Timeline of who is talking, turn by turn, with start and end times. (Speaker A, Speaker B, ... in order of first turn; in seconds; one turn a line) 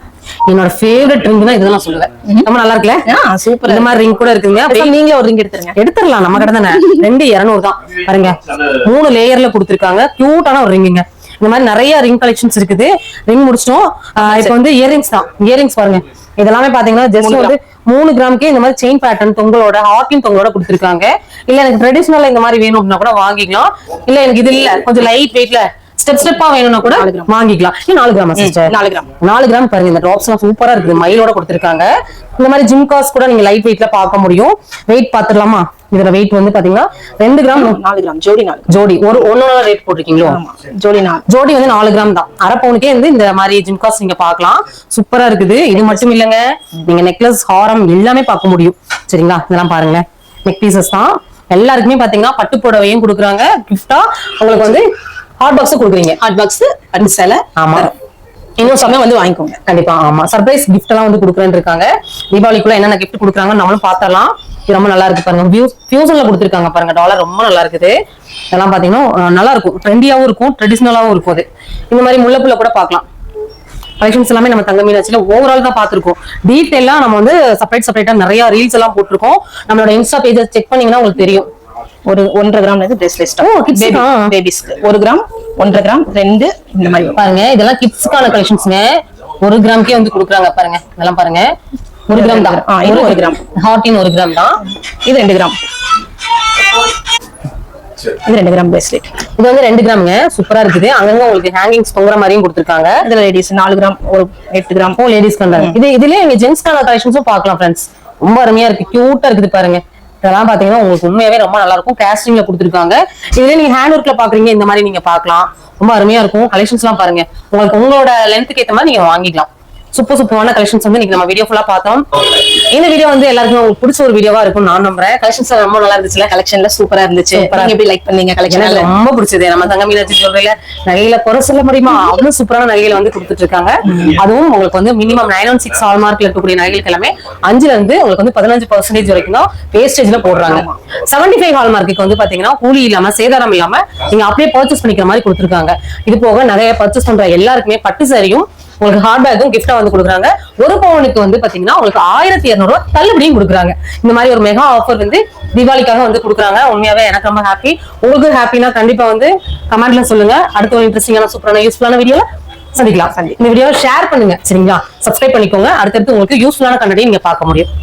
Speaker A: 0.5-3.1
Speaker B: 3.0-4.1
Speaker A: 3.7-4.9
Speaker B: 4.7-5.8
Speaker A: 5.8-37.8
Speaker B: 6.7-7.0
Speaker B: 14.2-14.6
Speaker B: 17.2-17.6
Speaker B: 26.9-27.3
Speaker B: 28.4-29.1
Speaker B: 37.5-38.8
Speaker A: 38.7-40.4
Speaker B: 40.2-41.2
Speaker A: 41.3-54.8
Speaker A: 55.4-56.2
Speaker B: 56.2-58.0
Speaker A: 57.6-57.9
Speaker A: 58.6-58.9
Speaker B: 58.6-59.6
Speaker A: 59.7-68.0
Speaker A: 68.5-73.0
Speaker A: 74.0-81.5
Speaker B: 82.1-87.2
Speaker A: 83.4-84.3
Speaker A: 87.2-91.5
Speaker A: 92.1-94.6
Speaker B: 92.1-93.4
Speaker B: 95.0-95.6
Speaker B: 98.2-99.1
Speaker A: 99.4-103.0
Speaker B: 103.0-105.0
Speaker A: 105.0-126.3
Speaker B: 126.3-128.9
Speaker A: 127.3-127.8
Speaker A: 128.5-167.7
Speaker B: 133.8-134.2
Speaker B: 140.5-140.8
Speaker B: 163.1-163.4